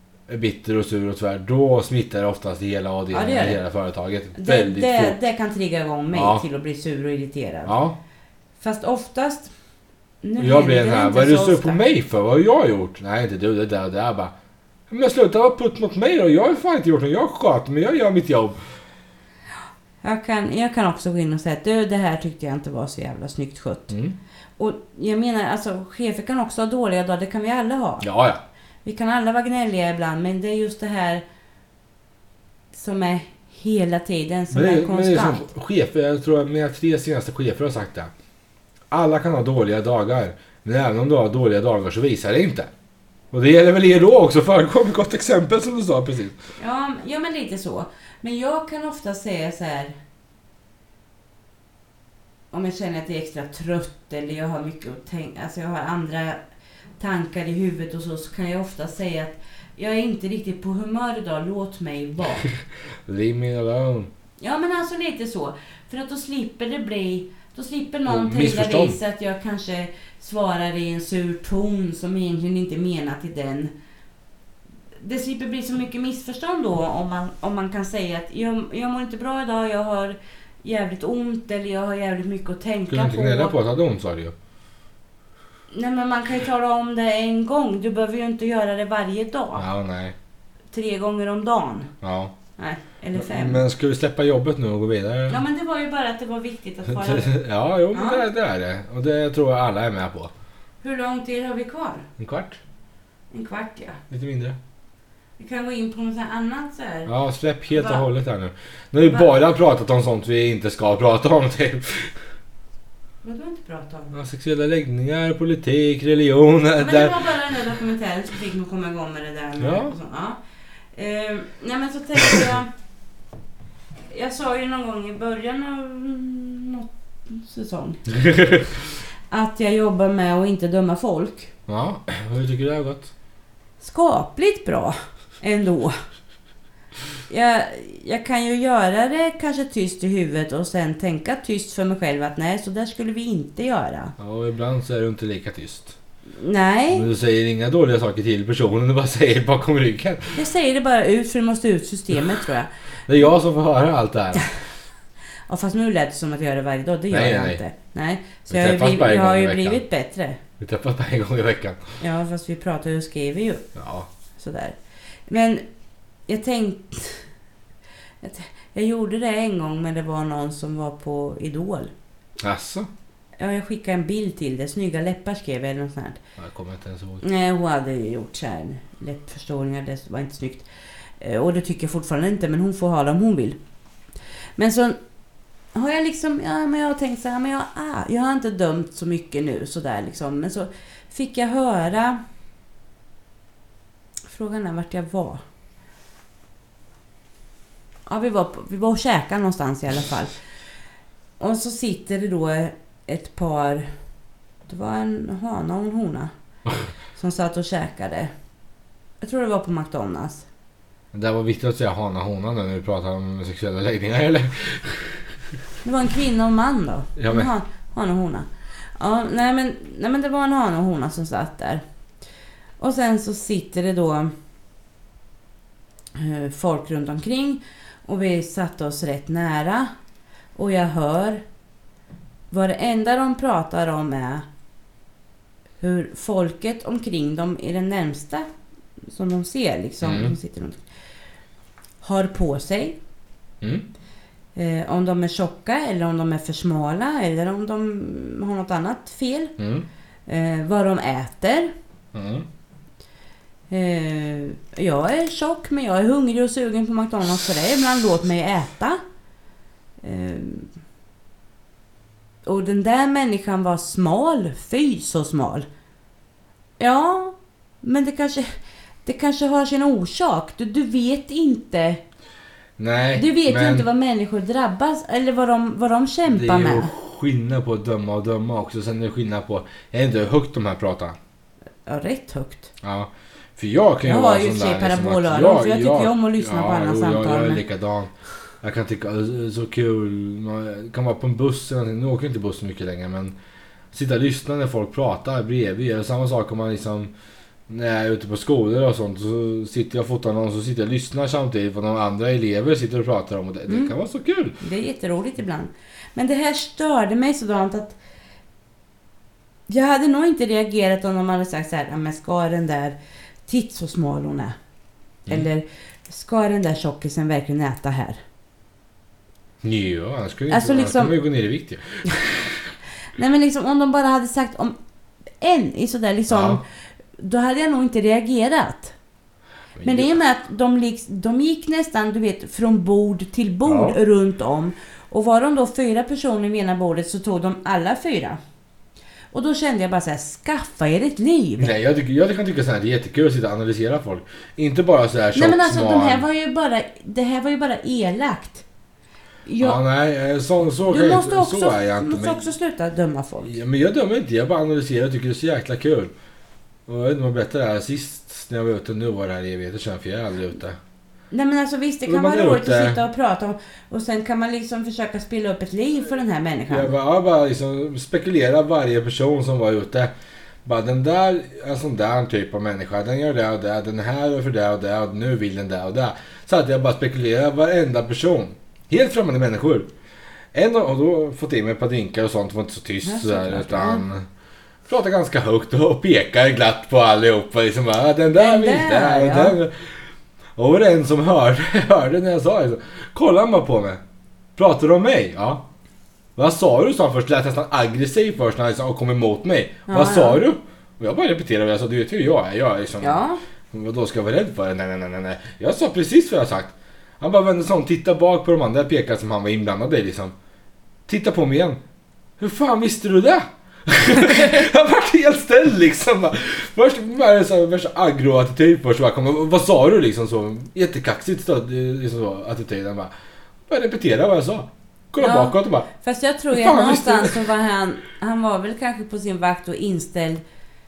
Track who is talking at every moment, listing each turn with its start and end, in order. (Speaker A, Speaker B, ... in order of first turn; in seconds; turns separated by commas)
Speaker A: 0.3-5.2, Speaker B: 3.1-3.6, Speaker B: 4.3-7.7, Speaker A: 6.1-6.4, Speaker A: 7.7-8.0, Speaker B: 8.6-9.5, Speaker B: 10.2-11.8, Speaker A: 10.4-14.3, Speaker A: 14.9-18.6, Speaker B: 20.0-23.9, Speaker A: 23.9-24.2, Speaker B: 24.6-28.1, Speaker A: 28.0-28.4, Speaker B: 28.9-31.2, Speaker B: 32.7-35.5, Speaker A: 34.5-38.1, Speaker A: 38.9-42.7, Speaker A: 43.3-46.4, Speaker B: 46.6-50.0, Speaker B: 52.5-56.4, Speaker B: 57.0-62.5, Speaker A: 63.1-64.1, Speaker B: 64.4-73.7, Speaker A: 68.1-69.0, Speaker B: 75.0-83.5, Speaker A: 82.9-84.3, Speaker B: 85.7-89.7, Speaker A: 89.6-90.2, Speaker B: 90.7-91.9, Speaker A: 92.0-92.3, Speaker B: 92.6-93.6, Speaker A: 93.2-95.4, Speaker B: 95.3-97.4, Speaker A: 96.9-100.3, Speaker B: 97.9-98.2, Speaker B: 100.8-102.1, Speaker A: 102.2-102.6, Speaker B: 103.3-104.0, Speaker A: 104.1-104.6, Speaker B: 105.4-107.1, Speaker A: 107.1-112.2, Speaker B: 107.7-108.1, Speaker B: 109.0-109.3, Speaker B: 113.2-114.2, Speaker A: 114.1-117.2, Speaker B: 116.8-120.4, Speaker A: 119.6-119.9, Speaker B: 121.0-122.7, Speaker B: 124.1-128.2, Speaker A: 128.2-128.6, Speaker B: 129.3-131.5, Speaker A: 131.7-133.1, Speaker B: 133.8-136.0, Speaker B: 137.3-144.2, Speaker A: 144.2-146.0, Speaker B: 146.4-147.1, Speaker A: 146.9-150.4, Speaker B: 150.3-152.7, Speaker A: 153.1-154.5, Speaker B: 155.5-160.4, Speaker A: 157.1-157.6, Speaker A: 158.5-159.8, Speaker A: 160.6-161.8, Speaker B: 162.0-163.7, Speaker A: 163.8-164.1, Speaker B: 164.4-165.6, Speaker B: 166.3-167.3, Speaker B: 168.2-171.9, Speaker A: 172.4-172.9, Speaker B: 173.4-176.2, Speaker A: 176.4-177.2, Speaker B: 177.2-180.7, Speaker B: 181.2-183.6, Speaker B: 184.6-185.0, Speaker B: 185.7-192.2, Speaker B: 194.3-195.4, Speaker B: 198.1-200.3, Speaker B: 201.4-203.9, Speaker B: 204.7-206.3, Speaker B: 207.1-208.3, Speaker B: 209.2-210.5, Speaker A: 211.1-215.2, Speaker B: 215.8-221.8, Speaker A: 217.2-217.5, Speaker B: 222.8-224.3, Speaker B: 226.2-229.9, Speaker B: 230.6-231.4, Speaker B: 232.5-234.5, Speaker B: 235.8-238.5, Speaker B: 239.1-240.8, Speaker A: 240.0-240.3, Speaker B: 242.0-243.0, Speaker B: 244.6-249.6, Speaker A: 249.6-249.9, Speaker B: 250.3-251.7, Speaker A: 252.1-252.5, Speaker B: 253.7-259.0, Speaker B: 260.0-260.7, Speaker B: 262.4-265.7, Speaker B: 266.8-268.5, Speaker B: 269.1-272.0, Speaker A: 272.8-273.9, Speaker B: 273.1-276.9, Speaker A: 276.3-281.2, Speaker B: 281.9-282.7, Speaker A: 282.8-288.1, Speaker B: 284.0-287.6, Speaker A: 288.6-293.4, Speaker A: 293.9-297.1, Speaker A: 297.7-304.6, Speaker B: 303.7-303.9, Speaker B: 304.6-308.0, Speaker B: 309.7-314.6, Speaker B: 315.3-318.2, Speaker A: 319.6-322.5, Speaker B: 320.5-321.1, Speaker B: 323.1-324.8, Speaker B: 325.4-326.6, Speaker A: 326.3-326.6, Speaker B: 327.2-328.9, Speaker A: 329.8-330.2, Speaker B: 329.8-338.4, Speaker A: 333.7-334.0, Speaker B: 339.3-341.7, Speaker A: 341.6-346.2, Speaker B: 345.4-348.6, Speaker B: 349.5-349.8, Speaker A: 349.6-352.4, Speaker B: 350.8-353.5, Speaker A: 353.4-356.1, Speaker A: 356.9-360.8, Speaker B: 361.3-366.9, Speaker A: 362.1-363.0, Speaker A: 366.7-370.1, Speaker A: 370.6-379.9, Speaker A: 380.5-384.3, Speaker B: 383.0-384.1, Speaker A: 384.9-389.7, Speaker B: 388.4-389.6, Speaker A: 390.6-394.0, Speaker A: 394.6-395.6, Speaker A: 396.4-410.4, Speaker B: 399.9-400.4, Speaker B: 403.0-403.4, Speaker A: 411.1-411.8, Speaker A: 412.4-423.1, Speaker A: 423.7-425.9, Speaker B: 425.2-430.4, Speaker A: 426.5-427.4